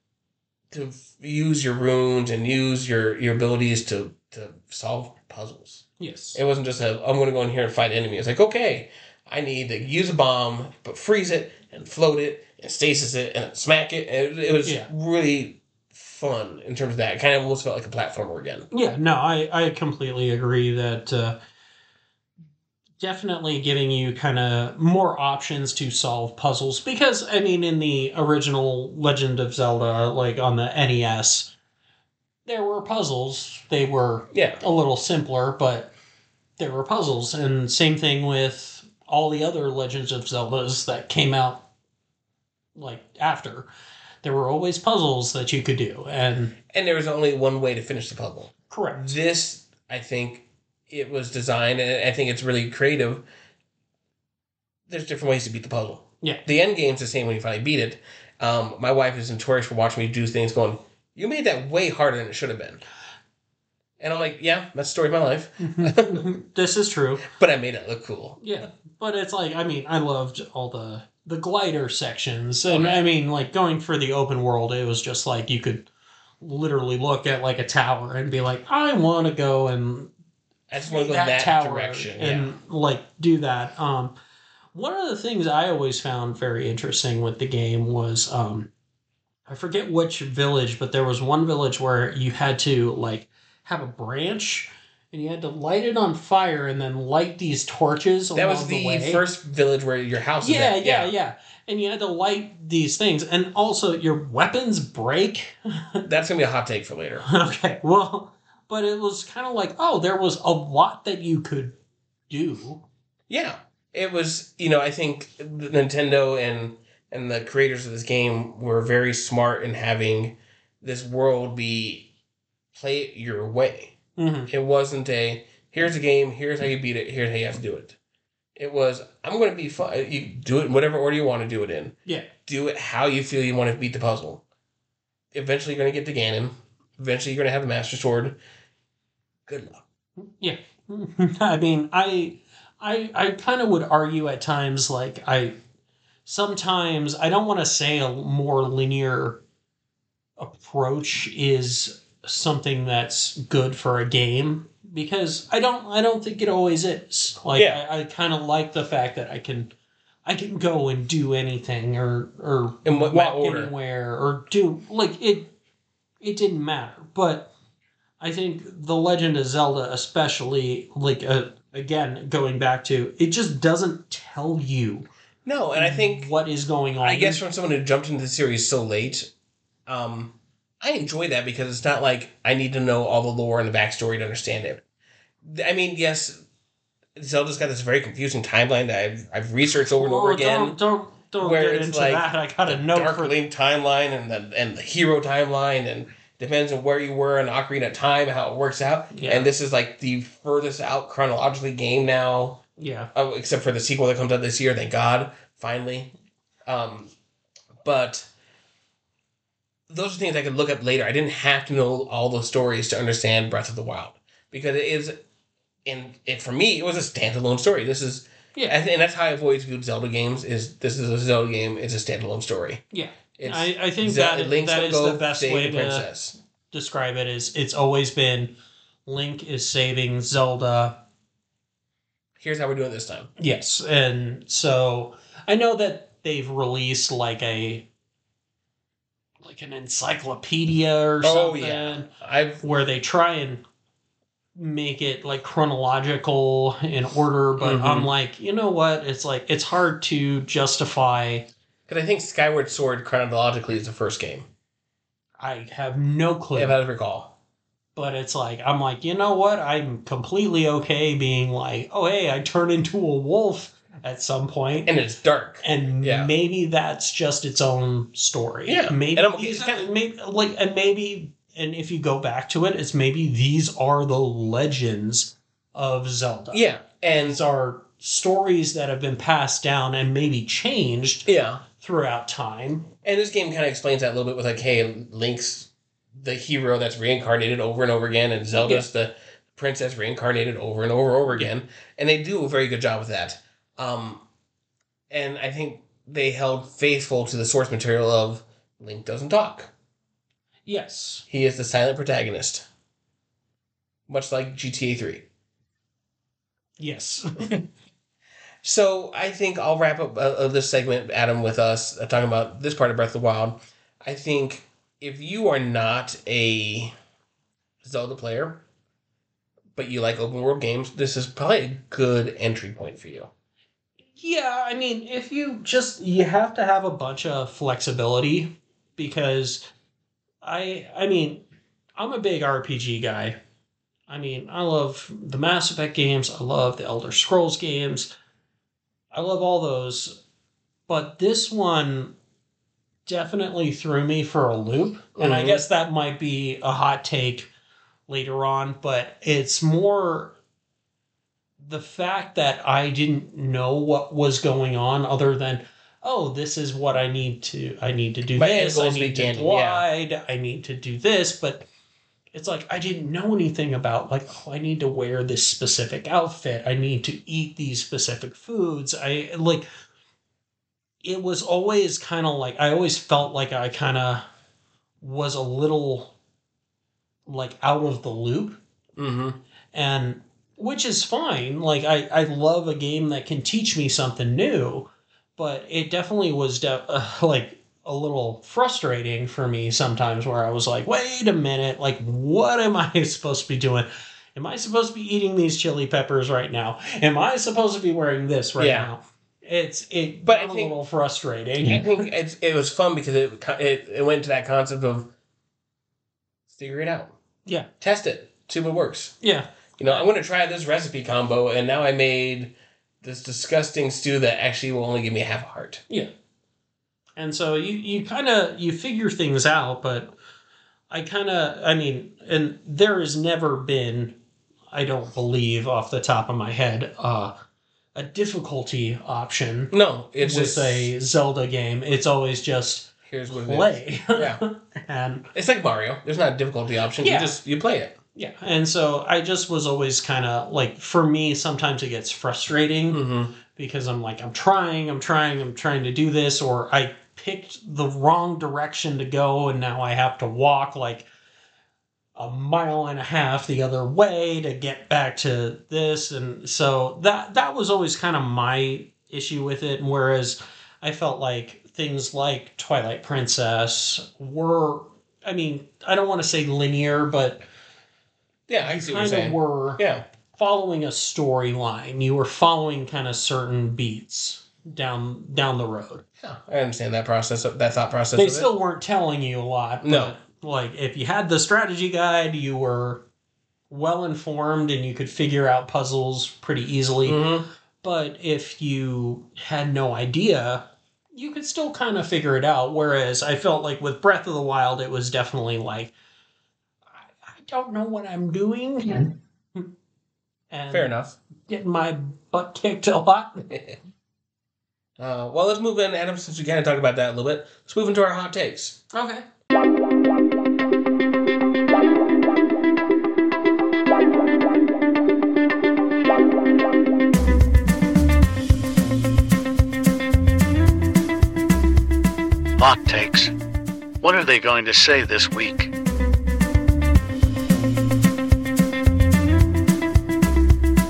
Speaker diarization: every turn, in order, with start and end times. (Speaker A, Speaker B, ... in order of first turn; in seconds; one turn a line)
Speaker A: 0.7-18.7
Speaker B: 6.0-6.4
Speaker B: 18.7-21.4
Speaker B: 23.0-31.5
Speaker B: 32.5-35.9
Speaker A: 34.3-34.6
Speaker B: 36.6-41.6
Speaker B: 42.7-43.7
Speaker B: 44.2-46.5
Speaker A: 46.7-53.2
Speaker B: 48.7-49.1
Speaker A: 54.9-62.8
Speaker A: 64.0-66.3
Speaker B: 65.6-67.2
Speaker A: 67.3-68.5
Speaker B: 68.4-75.9
Speaker A: 72.7-73.0
Speaker B: 76.4-80.1
Speaker A: 80.7-82.5
Speaker B: 80.8-84.1
Speaker B: 84.7-88.7
Speaker B: 89.5-99.2
Speaker A: 98.3-101.1
Speaker B: 100.4-106.0
Speaker A: 106.0-107.3
Speaker B: 107.3-111.8
Speaker B: 112.3-112.8
Speaker A: 113.3-122.1
Speaker A: 122.7-123.9
Speaker B: 124.2-124.5
Speaker A: 124.5-128.0
Speaker A: 128.6-134.4
Speaker A: 135.3-138.4
Speaker A: 139.5-139.8
Speaker B: 140.2-145.6
Speaker B: 146.2-149.4
Speaker B: 150.4-159.7
Speaker A: 157.5-157.8
Speaker B: 160.2-165.5
Speaker A: 162.8-163.7
Speaker B: 166.2-167.5
Speaker B: 168.2-175.1
Speaker A: 175.4-176.3
Speaker B: 175.8-177.4
Speaker A: 177.0-179.3
Speaker A: 179.9-184.8
Speaker A: 185.4-186.4
Speaker A: 187.2-190.8
Speaker B: 189.9-193.3
Speaker A: 191.4-202.6
Speaker B: 199.1-199.5
Speaker B: 202.8-203.1
Speaker A: 203.1-206.1
Speaker A: 206.7-207.1
Speaker A: 207.8-208.3
Speaker A: 209.9-215.2
Speaker A: 215.8-222.8
Speaker B: 222.9-226.1
Speaker A: 223.4-226.3
Speaker B: 226.7-228.5
Speaker B: 229.1-230.9
Speaker A: 232.4-233.3
Speaker B: 233.4-237.8
Speaker B: 239.4-242.1
Speaker A: 241.2-242.6
Speaker B: 242.6-243.6
Speaker B: 244.6-251.5
Speaker A: 247.6-248.1
Speaker A: 251.9-254.5
Speaker B: 255.4-256.8
Speaker A: 256.5-257.3
Speaker B: 257.9-264.9
Speaker A: 264.9-266.3
Speaker B: 265.6-281.3
Speaker A: 268.7-269.9
Speaker A: 276.5-277.4
Speaker A: 281.2-281.6
Speaker B: 281.8-282.9
Speaker A: 283.0-294.2
Speaker B: 288.5-288.9
Speaker A: 295.1-299.7
Speaker B: 300.6-301.2
Speaker A: 301.3-302.6
Speaker A: 304.1-305.2
Speaker B: 306.8-307.5
Speaker A: 308.6-316.9
Speaker A: 317.8-318.6
Speaker A: 319.7-323.3
Speaker B: 324.1-329.6
Speaker B: 330.4-331.4
Speaker B: 332.0-333.4
Speaker B: 334.1-338.1
Speaker B: 339.1-340.2
Speaker B: 340.9-342.1
Speaker B: 343.1-347.5
Speaker A: 345.2-345.6
Speaker B: 348.1-350.3
Speaker B: 351.6-361.7
Speaker A: 358.4-359.8
Speaker B: 362.3-369.7
Speaker B: 371.0-374.2
Speaker B: 375.0-376.1
Speaker B: 377.3-378.6
Speaker A: 378.9-379.4
Speaker B: 379.7-401.9
Speaker A: 398.6-398.9
Speaker A: 400.2-400.7
Speaker A: 401.6-405.1
Speaker A: 406.5-407.1
Speaker A: 407.8-409.2
Speaker B: 409.2-410.1
Speaker A: 409.8-415.8
Speaker B: 417.2-420.1
Speaker B: 420.9-424.2
Speaker B: 424.7-427.3
Speaker B: 427.9-435.2
Speaker A: 429.7-430.9
Speaker A: 433.1-434.4
Speaker A: 435.3-437.9
Speaker B: 437.0-437.3
Speaker B: 438.1-443.0
Speaker A: 442.9-443.3
Speaker B: 443.5-451.1
Speaker B: 452.1-467.4
Speaker A: 468.5-470.0
Speaker B: 468.6-469.8
Speaker B: 470.3-476.0
Speaker A: 476.2-478.5
Speaker B: 478.1-483.0
Speaker A: 479.8-480.1
Speaker B: 483.7-487.2
Speaker A: 487.0-487.4
Speaker B: 487.8-495.9
Speaker B: 497.1-499.7
Speaker B: 500.5-500.9
Speaker A: 500.7-501.2
Speaker B: 501.5-503.4
Speaker A: 503.5-503.8
Speaker A: 505.0-508.8
Speaker B: 508.9-509.2
Speaker C: 522.6-523.3
Speaker C: 524.0-525.7